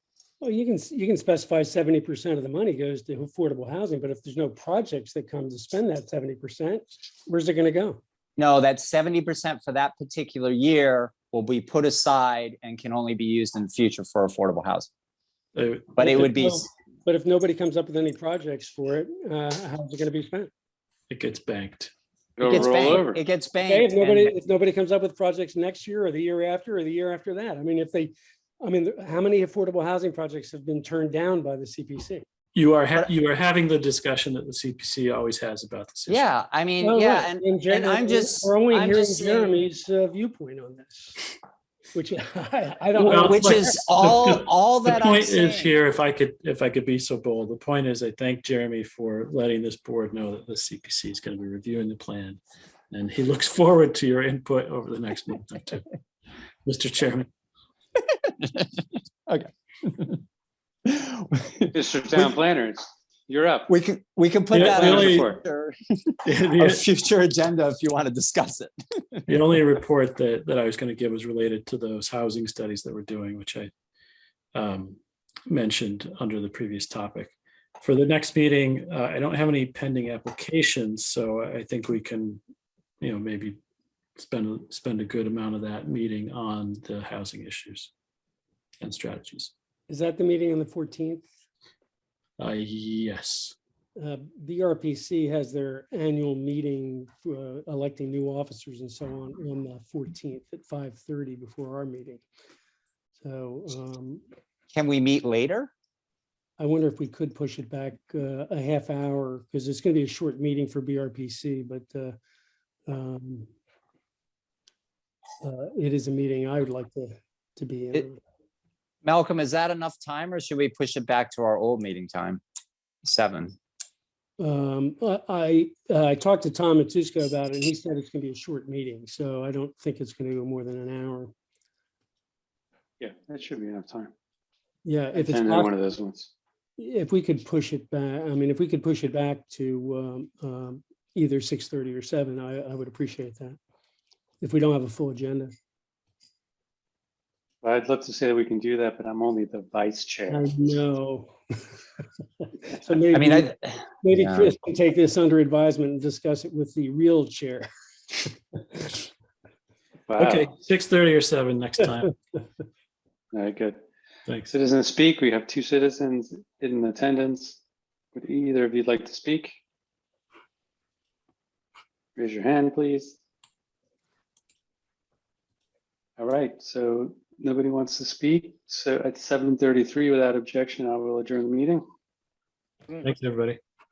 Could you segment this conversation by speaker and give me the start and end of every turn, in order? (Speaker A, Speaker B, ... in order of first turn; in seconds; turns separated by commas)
Speaker A: 0.4-8.0, Speaker B: 8.4-14.9, Speaker C: 15.5-16.3, Speaker B: 15.9-16.7, Speaker A: 16.0-20.5, Speaker C: 21.1-21.9, Speaker D: 22.4-23.2, Speaker B: 22.4-24.3, Speaker A: 23.6-32.2, Speaker C: 32.5-36.3, Speaker B: 36.1-39.6, Speaker A: 36.8-41.3, Speaker A: 41.9-43.8, Speaker B: 43.0-45.8, Speaker C: 43.0-52.4, Speaker C: 52.9-55.9, Speaker C: 56.6-57.3, Speaker B: 58.2-60.2, Speaker B: 60.9-62.3, Speaker D: 61.7-63.7, Speaker B: 63.7-69.3, Speaker C: 64.5-65.3, Speaker D: 64.5-65.4, Speaker C: 66.2-66.8, Speaker C: 69.3-73.7, Speaker C: 74.5-75.0, Speaker C: 75.5-82.4, Speaker C: 83.0-83.6, Speaker C: 84.2-87.9, Speaker C: 88.8-89.5, Speaker A: 89.9-91.3, Speaker C: 92.4-93.5, Speaker A: 94.0-102.2, Speaker A: 103.2-104.2, Speaker B: 104.7-105.7, Speaker A: 106.6-112.1, Speaker A: 112.9-113.5, Speaker A: 115.4-118.2, Speaker B: 119.0-122.4, Speaker B: 123.0-123.5, Speaker A: 124.4-131.3, Speaker D: 133.0-134.1, Speaker A: 134.8-135.7, Speaker D: 135.1-136.3, Speaker A: 136.8-143.6, Speaker A: 144.4-145.5, Speaker D: 147.6-150.8, Speaker A: 150.3-151.3, Speaker A: 152.7-157.7, Speaker B: 153.1-154.5, Speaker D: 160.1-160.5, Speaker C: 160.2-162.2, Speaker D: 163.3-163.8, Speaker D: 164.5-167.6, Speaker D: 168.1-169.5, Speaker D: 172.2-173.2, Speaker D: 176.2-181.8, Speaker C: 183.0-183.6